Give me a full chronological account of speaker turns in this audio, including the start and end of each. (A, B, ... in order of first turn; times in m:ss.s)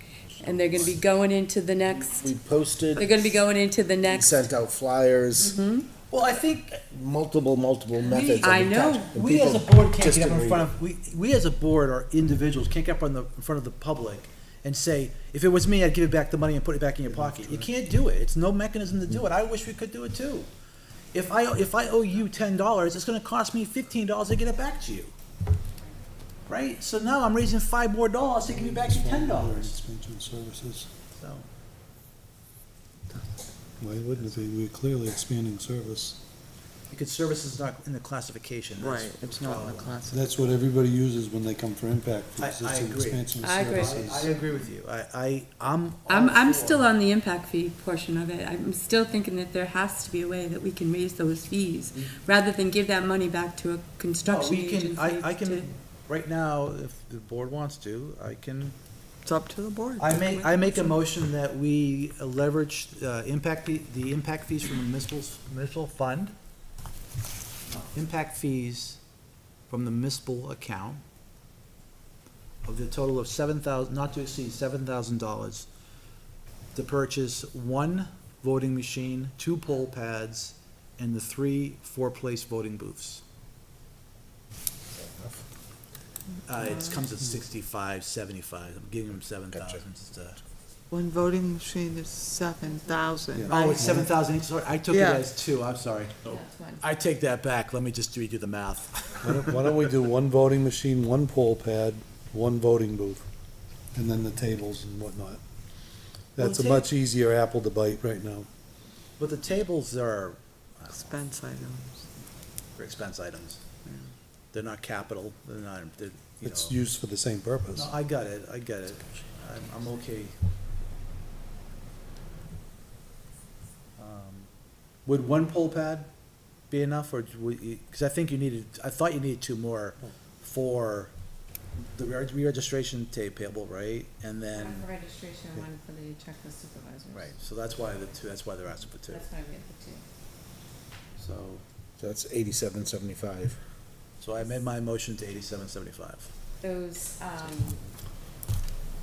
0:00.4-0:00.8 A
0:00.4-0:02.3 B
0:01.9-0:03.3 C
0:03.0-0:04.5 B
0:04.0-0:05.6 C
0:05.4-0:05.8 B
0:06.1-0:06.8 A
0:06.8-0:10.7 C
0:08.0-0:09.1 B
0:08.7-0:20.5 A
0:17.1-0:17.7 D
0:21.1-0:25.1 A
0:26.5-0:29.8 A
0:28.4-0:30.9 D
0:31.1-0:31.5 A
0:33.8-0:36.2 D
0:34.1-0:34.4 A
0:36.9-0:40.0 A
0:38.8-0:40.5 E
0:40.1-0:44.3 D
0:42.4-0:46.9 A
0:43.4-0:44.2 B
0:46.1-0:55.7 B
0:54.2-0:58.7 A
0:59.2-1:00.9 E
1:00.0-1:06.3 A
1:07.8-1:09.0 A
1:09.7-1:11.0 A
1:12.6-1:15.7 A
1:16.7-1:23.2 A
1:24.9-1:25.4 C
1:26.5-1:30.4 A
1:26.5-1:27.0 E
1:29.5-1:29.8 C
1:30.9-1:33.5 E
1:32.6-1:33.9 F
1:33.3-1:34.1 D
1:33.5-1:36.2 A
1:34.9-1:35.2 E
1:36.2-1:36.8 F
1:36.8-1:39.5 A
1:39.2-1:43.2 D
1:43.9-1:45.4 D
1:46.4-1:48.5 D
1:46.4-1:46.9 A
1:49.2-1:51.2 A
1:50.9-1:52.0 E
1:52.8-1:53.6 A
1:53.8-1:54.1 E
1:54.5-1:56.8 A
1:56.4-1:57.9 D
1:57.7-2:00.4 A
2:04.0-2:04.5 A
2:05.0-2:06.1 A
2:06.7-2:11.1 A
2:11.9-2:14.9 A
2:14.5-2:17.4 F
2:17.1-2:19.3 A
2:19.1-2:20.0 F
2:21.2-2:21.6 A
2:22.0-2:23.6 C
2:24.2-2:26.3 A
2:26.6-2:27.8 F
2:27.4-2:27.7 A